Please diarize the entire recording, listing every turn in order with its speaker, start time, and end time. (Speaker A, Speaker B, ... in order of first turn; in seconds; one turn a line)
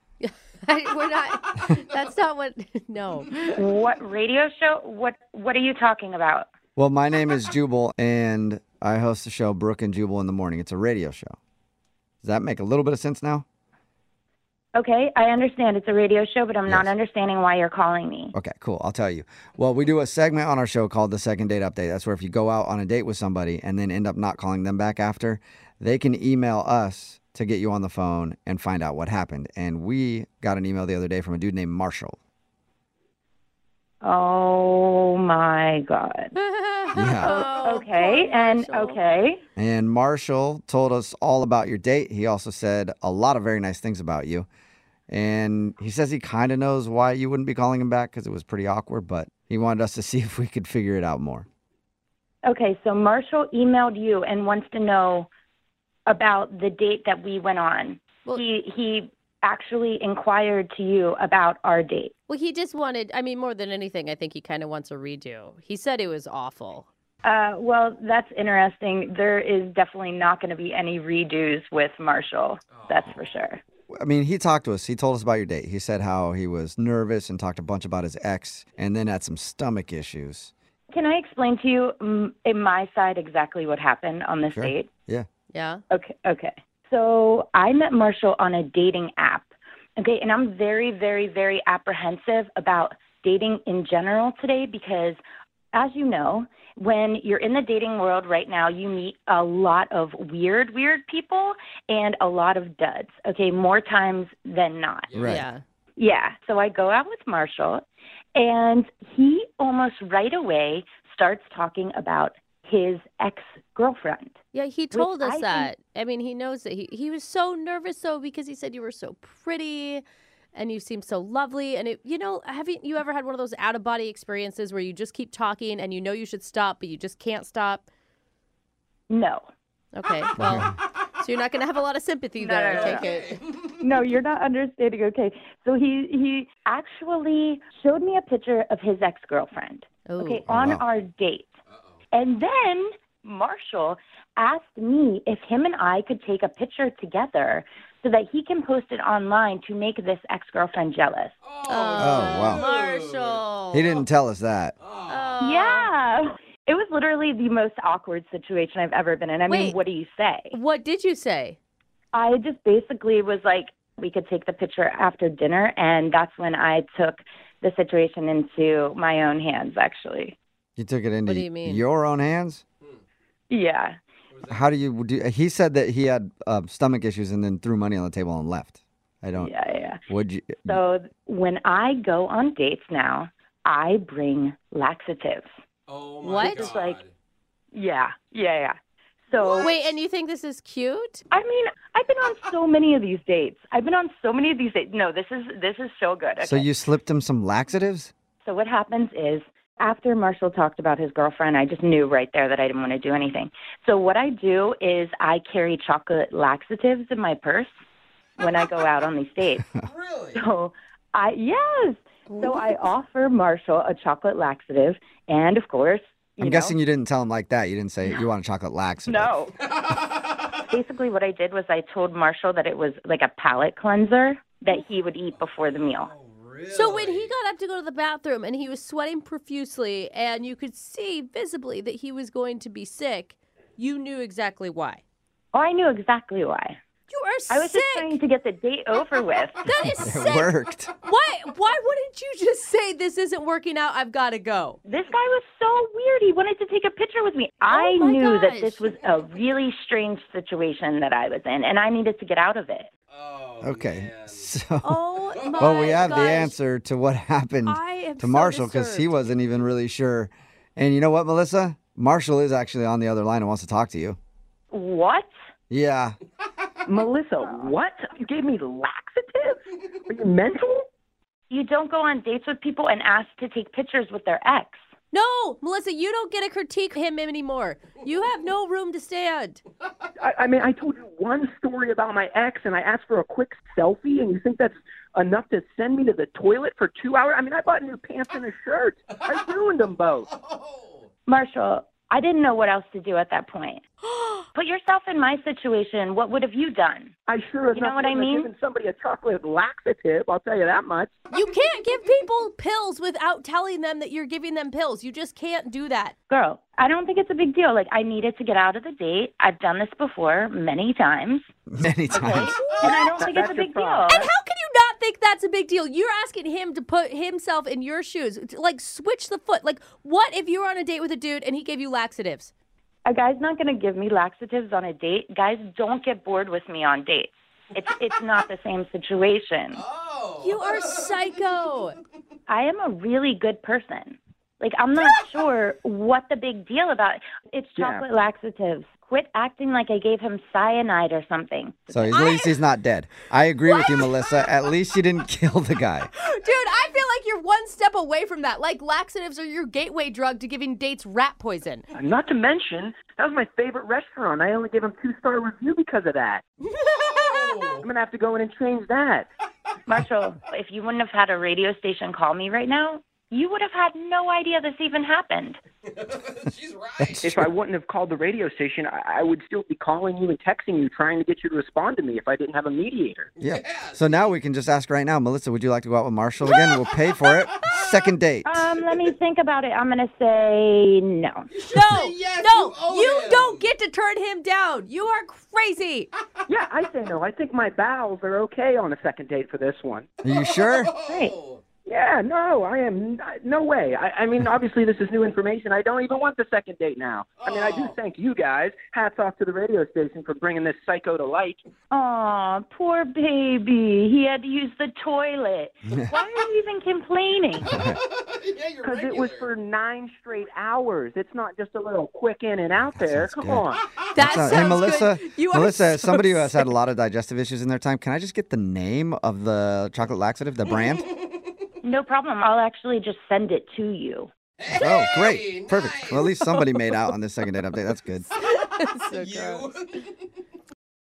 Speaker A: 0.2-3.4
Speaker B: 3.4-6.5
Speaker C: 6.8-11.4
Speaker C: 12.2-13.4
Speaker B: 14.8-18.3
Speaker C: 16.7-16.9
Speaker C: 18.3-32.2
Speaker B: 34.0-36.3
Speaker A: 36.4-39.0
Speaker C: 36.9-37.5
Speaker B: 37.2-39.4
Speaker C: 39.6-44.5
Speaker C: 45.1-51.5
Speaker B: 52.5-55.3
Speaker B: 56.1-62.1
Speaker A: 62.3-66.9
Speaker B: 67.2-73.6
Speaker D: 72.7-73.0
Speaker C: 73.9-80.5
Speaker B: 80.9-84.9
Speaker C: 84.5-85.3
Speaker A: 85.5-85.8
Speaker B: 85.9-95.2
Speaker B: 95.7-105.1
Speaker D: 105.1-105.4
Speaker C: 105.1-105.5
Speaker A: 105.2-105.6
Speaker B: 106.0-107.8
Speaker B: 108.3-114.3
Speaker A: 114.5-127.9
Speaker B: 114.9-115.7
Speaker B: 129.1-129.4
Speaker A: 129.9-133.4
Speaker C: 130.4-130.7
Speaker B: 132.4-133.1
Speaker D: 132.7-133.8
Speaker B: 133.8-141.5
Speaker A: 140.1-140.4
Speaker C: 140.5-140.8
Speaker B: 142.1-151.3
Speaker D: 151.4-153.4
Speaker A: 151.7-154.1
Speaker C: 152.0-152.6
Speaker C: 153.7-154.8
Speaker D: 154.8-155.3
Speaker A: 155.1-155.9
Speaker B: 155.4-160.6
Speaker A: 159.5-159.8
Speaker A: 160.5-161.6
Speaker B: 162.1-170.3
Speaker C: 170.8-172.6
Speaker A: 171.3-171.8
Speaker B: 173.5-174.0
Speaker D: 174.3-174.6
Speaker C: 174.5-179.5
Speaker B: 179.3-180.0
Speaker C: 180.1-180.8
Speaker B: 180.7-185.5
Speaker D: 185.9-187.1
Speaker A: 186.2-186.8
Speaker B: 186.4-187.0
Speaker B: 187.7-188.8
Speaker B: 189.3-189.9
Speaker A: 189.6-191.2
Speaker B: 191.3-196.7
Speaker C: 196.4-198.1
Speaker B: 198.4-207.7
Speaker B: 208.4-209.7
Speaker D: 209.8-210.4
Speaker B: 210.3-216.8
Speaker C: 216.4-219.3
Speaker B: 219.1-219.6
Speaker D: 219.6-220.5
Speaker B: 220.6-226.1
Speaker D: 225.9-227.3
Speaker A: 226.7-235.0
Speaker B: 235.5-236.8
Speaker A: 237.1-238.2
Speaker B: 237.5-239.7
Speaker A: 239.7-244.8
Speaker C: 240.0-240.9
Speaker B: 244.8-252.9
Speaker A: 247.7-248.8
Speaker D: 253.1-254.5
Speaker C: 253.6-255.0
Speaker A: 254.8-256.6
Speaker D: 255.3-256.2
Speaker C: 255.6-264.2
Speaker A: 257.6-259.5
Speaker B: 264.7-265.3
Speaker C: 265.7-266.1
Speaker E: 266.9-270.9
Speaker B: 267.4-267.7
Speaker B: 271.5-274.8
Speaker A: 275.1-279.6
Speaker E: 280.2-290.3
Speaker D: 289.1-289.4
Speaker D: 290.3-291.1
Speaker B: 291.3-293.8
Speaker A: 294.0-294.5
Speaker B: 294.5-297.1
Speaker E: 297.3-301.1
Speaker B: 297.7-298.5
Speaker A: 301.3-306.1
Speaker B: 306.3-311.5
Speaker C: 311.7-312.6
Speaker B: 312.1-314.2
Speaker E: 312.6-314.3
Speaker A: 314.1-322.5
Speaker B: 323.1-329.8
Speaker D: 329.7-331.1
Speaker A: 330.4-332.0
Speaker B: 332.5-342.2
Speaker E: 337.8-338.1
Speaker C: 341.9-346.1
Speaker A: 342.1-342.6
Speaker A: 343.6-344.5
Speaker A: 346.1-351.9
Speaker E: 351.9-356.4
Speaker A: 356.7-357.8
Speaker D: 356.8-357.8
Speaker E: 357.8-359.3
Speaker B: 359.9-365.6
Speaker D: 366.0-367.2
Speaker C: 367.0-367.4
Speaker E: 367.2-373.3
Speaker D: 373.4-374.3
Speaker C: 373.4-378.7
Speaker D: 377.6-377.9
Speaker B: 378.4-381.5
Speaker D: 381.5-383.7
Speaker A: 381.7-386.1
Speaker E: 386.5-390.1
Speaker C: 390.2-390.9
Speaker D: 390.2-391.6
Speaker B: 391.0-391.4
Speaker E: 391.8-401.6
Speaker D: 397.4-397.9
Speaker B: 401.9-407.8
Speaker C: 407.7-408.0
Speaker D: 407.7-409.5
Speaker E: 408.8-413.9
Speaker C: 412.9-413.6
Speaker A: 414.1-416.7
Speaker C: 414.1-421.1
Speaker B: 421.8-424.3
Speaker D: 424.6-426.2
Speaker C: 424.7-428.3
Speaker A: 428.4-429.7
Speaker D: 429.1-430.1